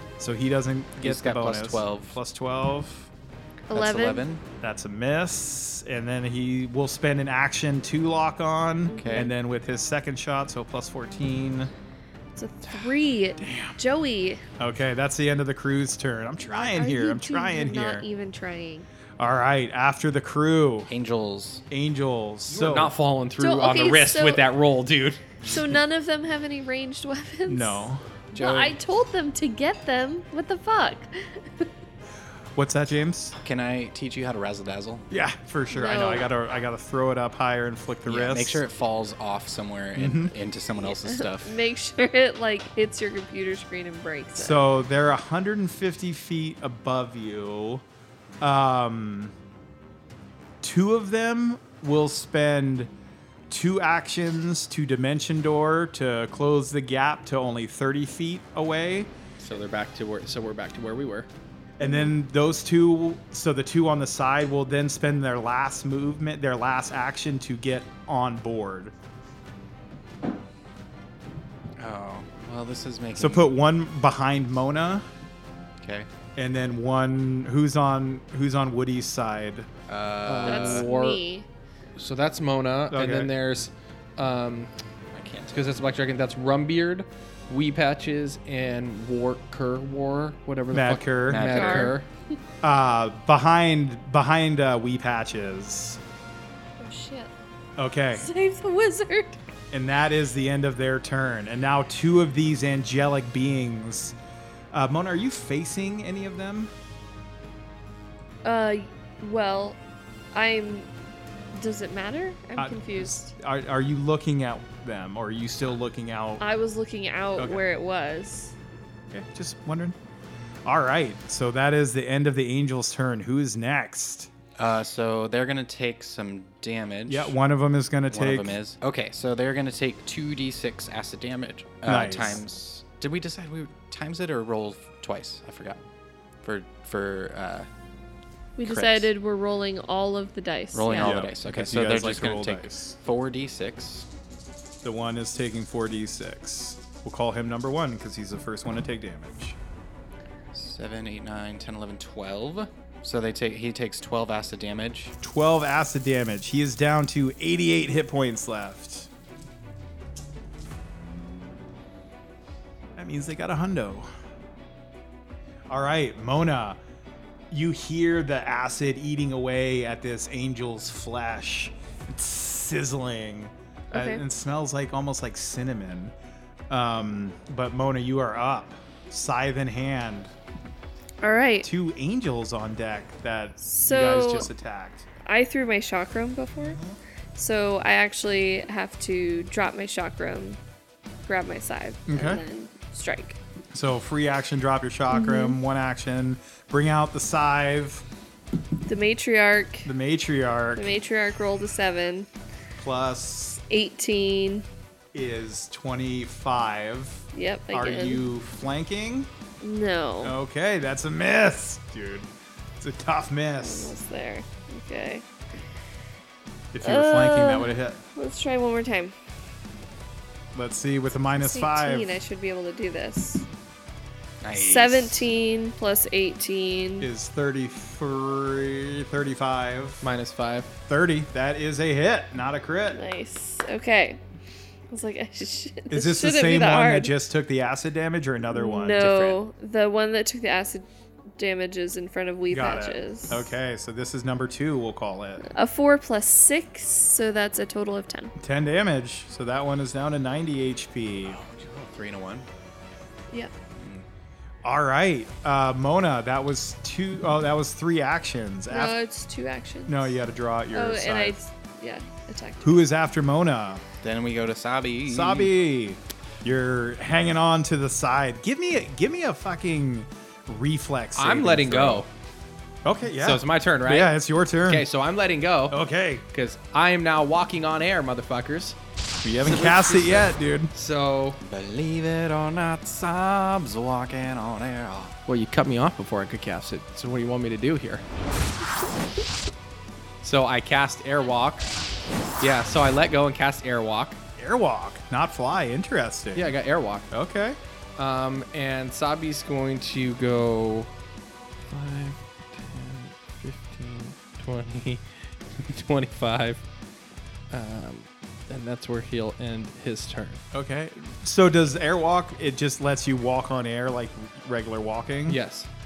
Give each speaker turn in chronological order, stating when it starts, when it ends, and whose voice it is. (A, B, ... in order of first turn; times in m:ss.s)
0:00.2-0:03.1 A
0:01.0-0:02.2 B
0:03.7-0:04.2 C
0:03.7-0:04.4 B
0:04.6-0:11.7 A
0:08.9-0:09.3 C
0:09.0-0:09.3 B
0:12.4-0:14.4 C
0:13.4-0:13.8 A
0:14.6-0:18.0 A
0:16.5-0:18.9 C
0:19.2-0:20.9 A
0:20.9-0:21.6 B
0:21.7-0:23.0 A
0:22.5-0:25.2 D
0:23.4-0:24.5 C
0:25.4-0:31.7 C
0:27.5-0:28.0 A
0:28.3-0:28.8 B
0:32.6-0:33.4 A
0:33.4-0:35.1 B
0:35.1-0:38.6 A
0:35.7-0:36.3 C
0:38.1-0:41.5 B
0:40.0-0:40.3 A
0:40.8-0:44.6 C
0:44.4-0:47.8 A
0:48.4-0:49.3 A
0:50.6-0:52.9 A
0:53.5-0:59.1 A
0:59.4-1:01.3 D
1:01.8-1:08.9 A
1:01.8-1:02.1 C
1:11.8-1:13.5 B
1:13.1-1:15.1 A
1:15.8-1:16.1 B
1:16.4-1:19.7 A
1:19.9-1:20.9 B
1:20.2-1:21.2 D
1:20.4-1:21.5 C
1:22.0-1:24.7 D
1:22.9-1:23.3 A
1:25.1-1:25.8 B
1:25.5-1:32.1 D
1:30.7-1:31.7 A
1:31.3-1:32.0 B
1:31.5-1:32.0 C
1:32.6-1:36.0 A
1:36.8-1:37.3 C
1:37.8-1:38.3 A
1:38.1-1:39.4 C
1:39.7-1:44.1 A
1:44.7-1:46.7 A
1:48.4-1:49.8 C
1:50.3-1:50.9 C
1:51.5-1:53.3 C
1:52.6-1:56.4 A
1:56.4-1:58.5 C
1:59.1-2:00.0 A
2:00.6-2:04.3 A
2:04.6-2:07.4 B
2:07.1-2:08.6 A
2:08.1-2:15.8 B
2:11.8-2:12.4 A
2:16.4-2:17.7 B
2:18.6-2:21.2 C
2:18.6-2:19.1 B
2:20.7-2:24.1 B
2:20.9-2:23.0 A
2:24.8-2:29.6 A
2:30.5-2:35.1 B
2:35.2-2:39.1 A
2:43.0-2:44.1 A
2:45.7-2:46.8 A
2:47.5-2:56.1 A
2:53.9-2:54.2 C
2:56.7-3:00.3 A
3:01.2-3:01.7 C
3:01.6-3:05.1 A
3:03.6-3:04.5 C
3:05.2-3:06.8 C
3:06.6-3:07.0 A
3:07.4-3:10.6 C
3:11.3-3:13.4 C
3:12.1-3:12.4 A
3:13.7-3:18.0 A
3:15.1-3:15.6 C
3:18.9-3:19.9 C
3:19.8-3:20.8 A
3:20.8-3:22.3 C
3:22.8-3:23.6 A
3:23.7-3:24.6 C
3:25.1-3:29.3 A
3:27.3-3:28.2 C
3:29.6-3:30.4 C
3:30.2-3:34.0 A
3:33.6-3:35.2 C
3:36.7-3:38.0 A
3:36.8-3:39.1 C
3:40.5-3:42.1 A
3:41.3-3:43.4 C
3:44.4-3:45.3 B
3:44.5-3:47.1 C
3:47.0-3:50.0 A
3:50.0-3:50.7 D
3:50.9-3:53.0 A
3:52.9-3:54.2 C
3:54.9-3:57.1 C
3:55.9-3:59.4 A
3:58.5-4:00.9 C
3:59.0-3:59.3 B
4:01.4-4:03.6 C
4:02.5-4:05.4 A
4:05.4-4:08.3 C
4:08.4-4:11.4 A
4:11.2-4:12.5 B
4:13.8-4:14.1 B
4:14.6-4:19.0 A
4:18.7-4:20.1 C
4:19.9-4:21.4 A
4:20.7-4:22.8 C
4:22.6-4:23.8 A
4:24.0-4:25.5 B
4:25.1-4:32.1 A
4:31.2-4:32.1 D
4:32.8-4:34.9 A
4:33.1-4:38.8 D
4:35.7-4:36.2 A
4:39.2-4:40.7 A
4:39.4-4:41.4 D
4:41.4-4:45.1 B
4:45.3-4:48.0 D
4:50.2-4:51.7 D
4:52.4-4:54.2 D
4:54.4-4:56.6 A
4:56.4-4:57.1 D
4:57.1-4:57.6 A
4:58.0-5:00.9 D
5:01.7-5:06.6 D
5:07.5-5:10.4 D
5:10.5-5:15.4 A
5:15.3-5:15.7 D